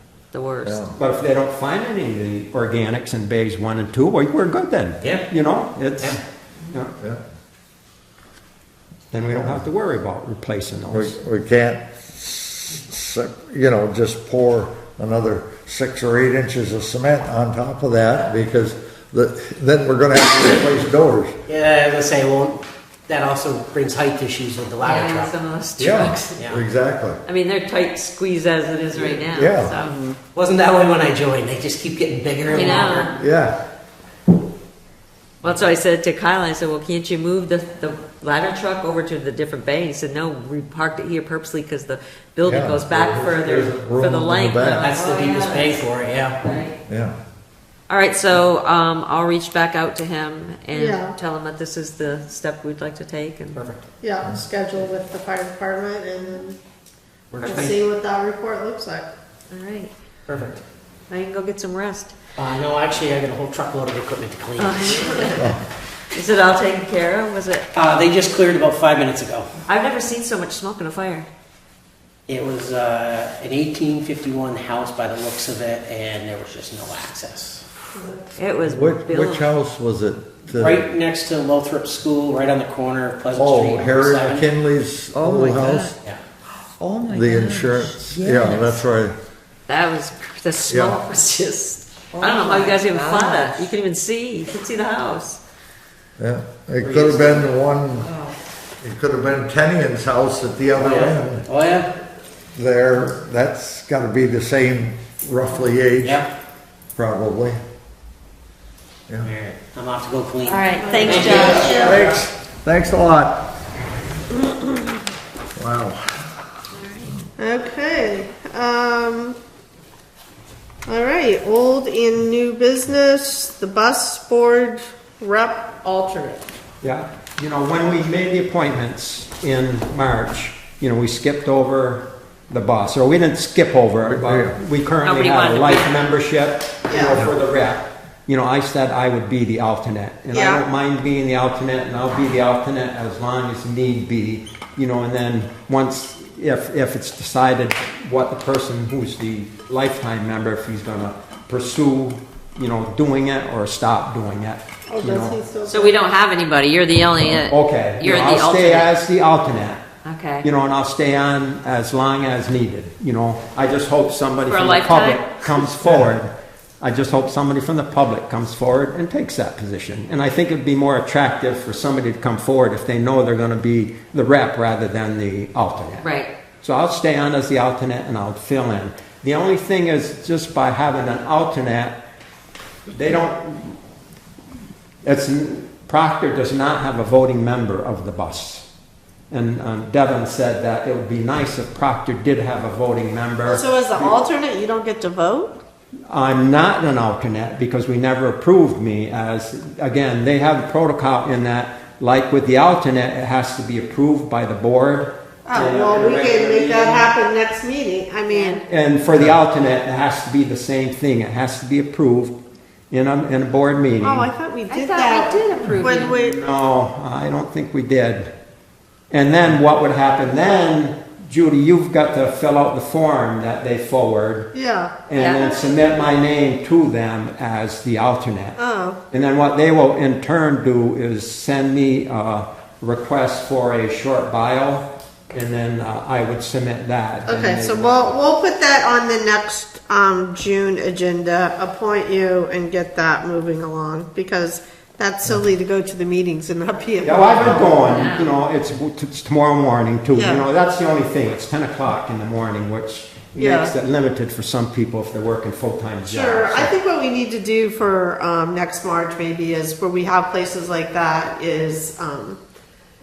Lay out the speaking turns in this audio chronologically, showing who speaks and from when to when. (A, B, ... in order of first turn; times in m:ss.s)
0:00.3-0:00.9 A
0:00.6-0:01.0 B
0:01.0-0:06.2 C
0:05.0-0:05.3 D
0:09.1-0:11.2 C
0:09.3-0:09.6 B
0:10.9-0:21.3 B
0:21.5-0:25.3 D
0:24.8-0:26.5 A
0:25.8-0:27.2 B
0:26.4-0:26.6 D
0:27.2-0:29.9 A
0:28.9-0:29.3 D
0:29.4-0:29.8 B
0:30.2-0:33.2 D
0:32.5-0:33.2 A
0:33.2-0:33.6 B
0:35.4-0:45.8 A
0:42.4-0:44.9 B
0:44.8-0:46.4 D
0:46.4-0:46.8 A
0:46.9-0:47.1 B
0:47.9-0:53.6 A
0:50.7-0:51.2 E
0:53.5-0:53.8 D
0:54.0-0:56.6 E
0:57.3-0:57.8 D
0:57.4-0:59.1 E
0:59.5-0:59.9 A
1:00.3-1:00.6 D
1:01.1-1:02.1 A
1:02.4-1:05.4 D
1:04.6-1:05.6 A
1:06.1-1:07.8 A
1:07.7-1:09.6 D
1:09.7-1:11.3 A
1:12.3-1:17.6 D
1:18.4-1:19.5 A
1:18.6-1:20.8 B
1:20.5-1:24.5 D
1:23.3-1:25.9 B
1:25.1-1:26.0 F
1:26.8-1:28.8 F
1:27.1-1:29.1 B
1:29.7-1:35.4 A
1:30.7-1:31.0 B
1:32.1-1:33.6 F
1:36.2-1:38.1 B
1:36.8-1:37.4 D
1:38.0-1:38.3 F
1:38.8-1:41.4 B
1:40.8-1:41.9 D
1:42.5-1:46.3 B
1:46.0-1:46.3 D
1:47.0-1:47.6 B
1:49.2-1:52.0 D
1:50.5-1:52.0 A
1:50.9-1:51.9 E
1:51.2-1:53.5 B
1:55.6-1:56.3 B
1:56.8-1:57.1 A
1:57.4-1:59.4 E
2:00.9-2:06.4 E
2:06.8-2:35.4 C
2:14.1-2:14.6 B
2:15.0-2:16.1 A
2:16.9-2:17.2 E
2:17.1-2:17.4 B
2:20.3-2:20.6 E
2:34.9-2:36.0 E
2:35.7-2:38.9 A
2:37.3-2:39.8 C
2:40.0-2:40.5 A
2:40.4-2:56.1 C
2:44.5-2:45.7 A
2:45.8-2:46.1 B
2:56.0-2:56.3 A
2:56.6-3:02.0 C
3:02.9-3:03.8 C
3:05.0-3:08.7 C
3:09.3-3:14.2 C
3:13.4-3:15.6 E
3:16.1-3:27.1 C
3:25.4-3:28.6 E
3:28.3-3:28.6 A
3:28.7-3:32.4 C
3:32.9-3:34.3 C
3:34.0-3:36.4 E
3:34.7-3:36.2 A
3:35.7-3:38.3 C
3:39.1-3:44.5 C
3:44.5-3:44.9 E
3:45.1-3:48.6 C
3:45.2-3:45.5 A
3:48.6-3:49.0 E
3:49.1-3:58.1 C
3:57.2-4:07.8 E
4:07.0-4:16.7 C
4:07.6-4:08.3 A
4:10.1-4:10.5 E
4:13.4-4:13.7 E
4:16.0-4:22.4 E